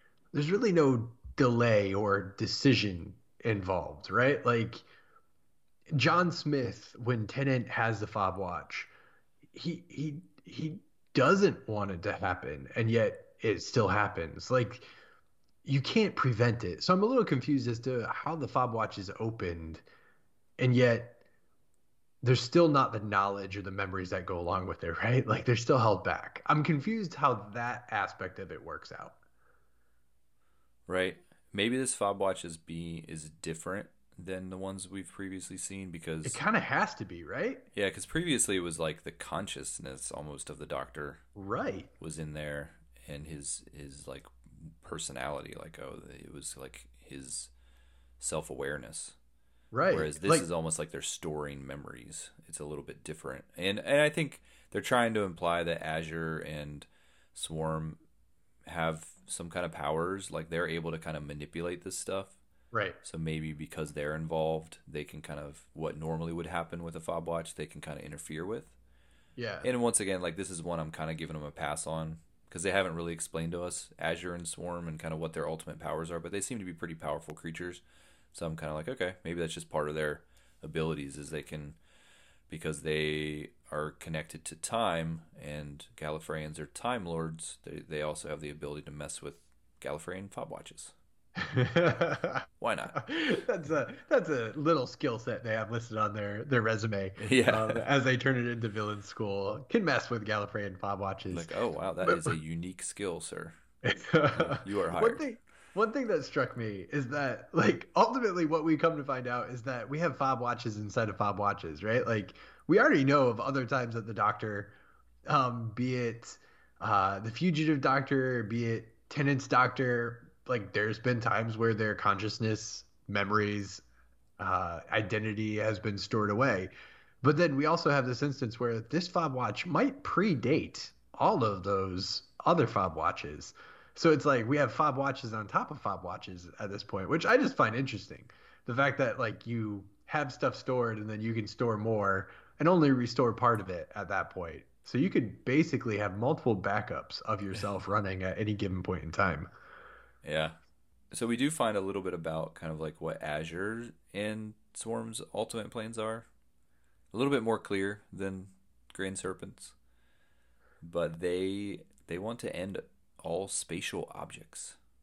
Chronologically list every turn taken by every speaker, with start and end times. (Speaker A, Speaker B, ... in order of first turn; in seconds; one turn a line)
Speaker A: 0.3-4.8
Speaker A: 5.9-8.9
Speaker A: 9.5-14.9
Speaker A: 15.7-19.8
Speaker A: 20.6-21.2
Speaker A: 22.2-29.2
Speaker B: 30.9-36.4
Speaker A: 36.2-37.7
Speaker B: 37.7-41.2
Speaker A: 41.4-41.9
Speaker B: 42.0-47.5
Speaker B: 48.2-49.2
Speaker A: 49.7-50.5
Speaker B: 49.9-58.0
Speaker B: 58.6-62.4
Speaker A: 62.7-63.0
Speaker B: 63.0-68.7
Speaker A: 69.4-69.7
Speaker B: 69.6-81.8
Speaker B: 82.5-90.9
Speaker A: 91.4-101.5
Speaker B: 92.6-93.0
Speaker B: 97.2-97.8
Speaker B: 101.3-103.6
Speaker A: 103.8-114.8
Speaker B: 104.3-105.2
Speaker A: 115.3-123.8
Speaker A: 124.4-126.7
Speaker A: 127.2-149.5
Speaker B: 150.2-150.6
Speaker B: 151.1-156.3
Speaker B: 157.1-159.8
Speaker B: 160.8-164.8